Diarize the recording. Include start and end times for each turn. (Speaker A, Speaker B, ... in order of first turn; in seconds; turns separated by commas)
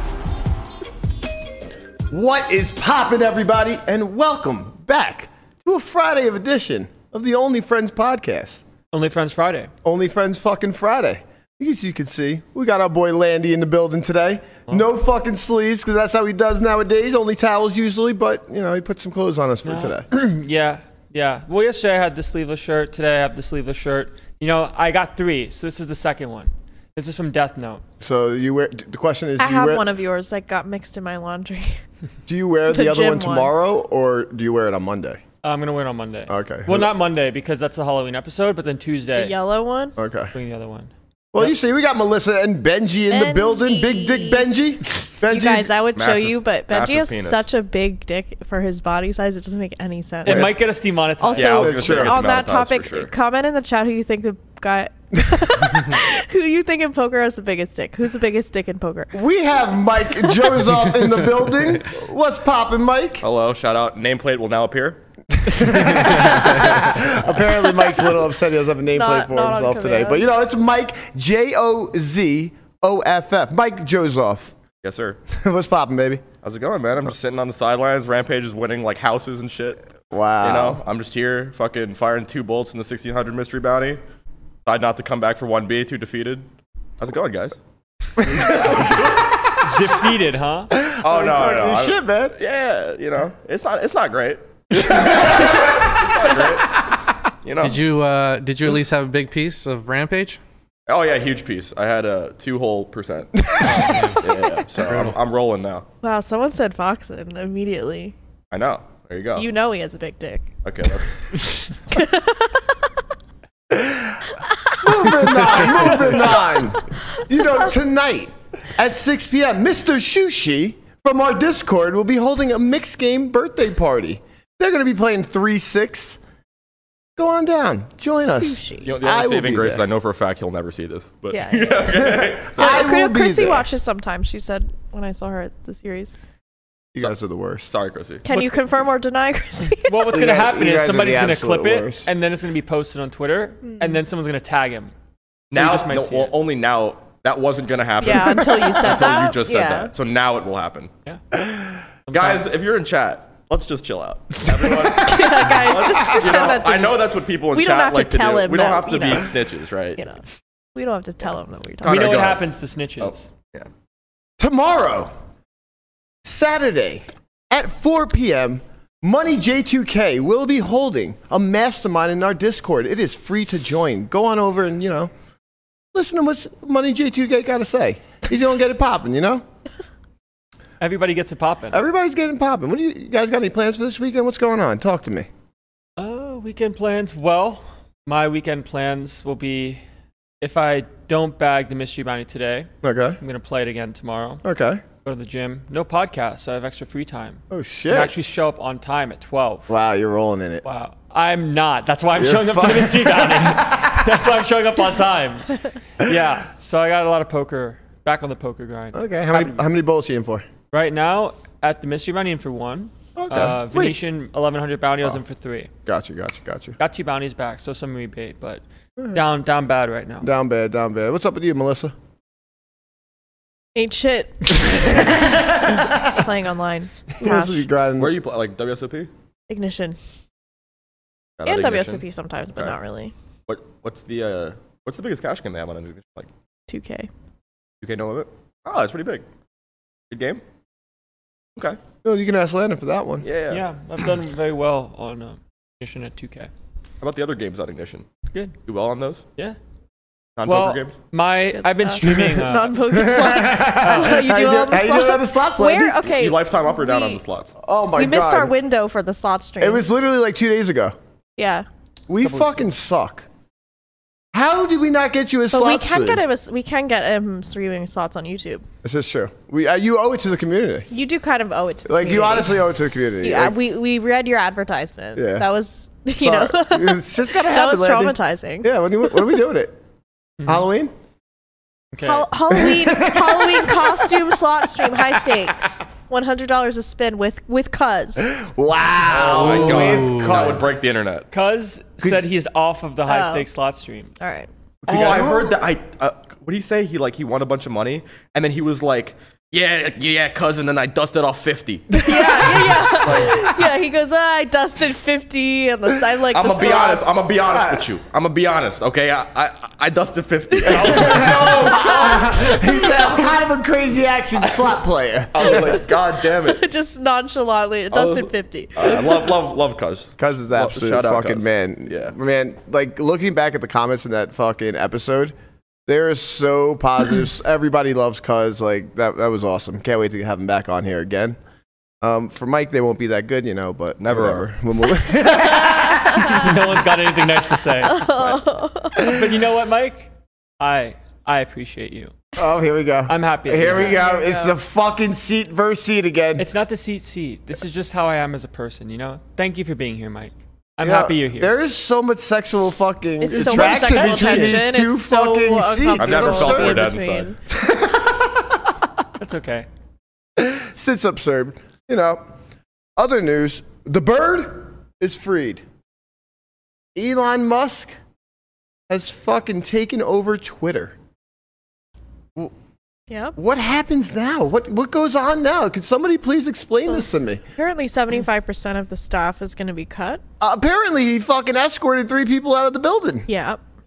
Speaker A: 2.1-8.6, Speaker B: 8.9-9.7, Speaker A: 9.8-20.1, Speaker B: 19.6-27.8, Speaker A: 28.0-29.9, Speaker C: 29.4-31.8, Speaker A: 32.3-35.2, Speaker C: 32.7-33.5, Speaker B: 35.4-39.4, Speaker A: 36.3-36.9, Speaker C: 39.1-40.0, Speaker A: 40.0-40.4, Speaker B: 40.3-41.5, Speaker A: 41.3-45.7, Speaker C: 43.1-44.5, Speaker C: 45.3-50.6, Speaker D: 45.9-47.5, Speaker B: 50.2-51.9, Speaker A: 50.3-50.5, Speaker C: 51.2-59.2, Speaker D: 51.4-53.1, Speaker A: 51.6-52.2, Speaker A: 59.1-63.2, Speaker D: 63.2-65.0, Speaker A: 65.4-74.5, Speaker C: 66.0-66.7, Speaker D: 66.5-66.8, Speaker C: 68.9-70.3, Speaker D: 74.8-75.2, Speaker A: 75.3-76.2, Speaker D: 76.4-79.9, Speaker A: 80.1-80.8, Speaker D: 80.4-84.0, Speaker D: 84.7-86.5, Speaker D: 87.0-87.6, Speaker A: 88.2-89.1, Speaker D: 88.3-89.3, Speaker B: 89.6-90.7, Speaker A: 90.8-92.4, Speaker D: 91.0-96.9, Speaker A: 95.1-95.5, Speaker D: 97.4-97.8, Speaker E: 97.6-100.4, Speaker D: 100.9-105.9, Speaker A: 103.4-104.0, Speaker E: 103.6-104.2, Speaker E: 104.9-105.2, Speaker C: 106.0-108.2, Speaker D: 108.5-109.5, Speaker C: 109.4-110.5, Speaker D: 110.6-111.6, Speaker C: 111.9-112.7, Speaker A: 113.7-126.2, Speaker C: 114.7-115.7, Speaker A: 127.2-129.8, Speaker C: 128.2-128.9, Speaker D: 128.8-132.9, Speaker C: 131.3-136.2, Speaker A: 132.0-133.7, Speaker A: 136.9-137.7, Speaker D: 137.7-138.3, Speaker C: 138.2-140.1, Speaker B: 138.3-138.6, Speaker B: 139.8-144.9, Speaker A: 140.1-142.1, Speaker C: 143.7-144.0, Speaker D: 145.5-150.9, Speaker B: 145.5-146.4, Speaker C: 148.0-149.9, Speaker B: 152.1-152.4, Speaker D: 152.1-160.0, Speaker C: 154.9-157.0, Speaker C: 157.5-159.3, Speaker C: 160.0-160.2, Speaker C: 160.7-162.2, Speaker D: 161.8-162.4, Speaker B: 161.8-163.3, Speaker D: 163.0-163.7, Speaker A: 164.4-165.1, Speaker A: 166.2-175.1, Speaker A: 175.9-179.4, Speaker B: 180.8-181.8, Speaker A: 181.7-185.3, Speaker B: 186.0-189.8, Speaker B: 190.4-192.7, Speaker A: 192.8-193.2, Speaker B: 193.2-194.4, Speaker A: 194.4-194.8, Speaker B: 195.1-199.7, Speaker A: 197.5-198.1, Speaker A: 199.7-200.7, Speaker B: 200.6-209.6, Speaker A: 202.1-204.0, Speaker A: 208.9-210.5, Speaker B: 210.7-215.7, Speaker A: 213.2-214.0, Speaker A: 215.9-216.8, Speaker B: 216.8-220.3, Speaker A: 220.2-221.9, Speaker C: 223.8-227.7, Speaker A: 227.2-228.2, Speaker D: 228.0-229.1, Speaker C: 229.5-230.0, Speaker D: 231.4-232.8, Speaker C: 231.4-233.1, Speaker D: 233.5-236.3, Speaker C: 236.7-237.1, Speaker D: 237.8-239.2, Speaker D: 240.1-240.4, Speaker A: 242.0-243.3, Speaker D: 243.2-243.7, Speaker B: 243.5-246.5, Speaker D: 247.0-248.1, Speaker D: 248.7-249.2, Speaker D: 250.4-251.0, Speaker B: 250.5-252.8, Speaker C: 251.5-257.2, Speaker A: 252.0-256.0, Speaker B: 253.8-254.2, Speaker D: 256.1-257.6, Speaker A: 257.6-258.6, Speaker C: 258.0-259.9, Speaker A: 259.6-261.0, Speaker C: 261.4-261.7, Speaker A: 262.1-263.3, Speaker B: 262.2-262.6, Speaker A: 264.3-266.2, Speaker C: 265.5-268.6, Speaker A: 268.8-270.9, Speaker C: 270.9-272.6, Speaker A: 271.9-273.6, Speaker C: 273.2-279.4, Speaker A: 275.1-275.5, Speaker A: 276.2-279.8, Speaker B: 280.4-280.6, Speaker A: 280.4-280.9, Speaker B: 281.9-282.3, Speaker C: 282.1-288.4, Speaker A: 282.5-285.3, Speaker A: 288.2-290.7, Speaker D: 289.1-291.3, Speaker E: 289.1-290.6, Speaker B: 291.3-294.2, Speaker C: 293.1-293.4, Speaker C: 294.2-294.5, Speaker A: 294.8-295.6, Speaker D: 294.9-303.3, Speaker C: 301.9-307.2, Speaker D: 306.3-312.2, Speaker A: 307.4-307.9, Speaker C: 310.7-313.2, Speaker A: 310.7-315.8, Speaker D: 315.3-316.6, Speaker C: 315.4-315.9, Speaker C: 316.4-319.3, Speaker D: 317.9-322.1, Speaker A: 320.2-325.3, Speaker A: 325.9-331.4, Speaker A: 332.0-336.6, Speaker D: 334.0-334.5, Speaker C: 335.2-336.5, Speaker B: 336.3-338.1, Speaker C: 337.8-339.1, Speaker D: 338.1-338.4, Speaker B: 339.0-342.1, Speaker A: 342.4-346.5, Speaker B: 343.1-344.1, Speaker C: 343.7-344.6, Speaker B: 346.4-351.5, Speaker A: 350.8-356.9, Speaker C: 353.2-357.4, Speaker B: 353.3-354.6, Speaker D: 356.0-357.3, Speaker A: 357.5-358.5, Speaker B: 359.2-359.7, Speaker A: 360.4-362.2, Speaker A: 363.0-365.6, Speaker A: 366.9-367.9, Speaker A: 368.9-370.9, Speaker C: 373.1-373.4, Speaker A: 373.4-377.4, Speaker C: 376.9-380.2, Speaker A: 380.4-383.3, Speaker C: 383.3-383.6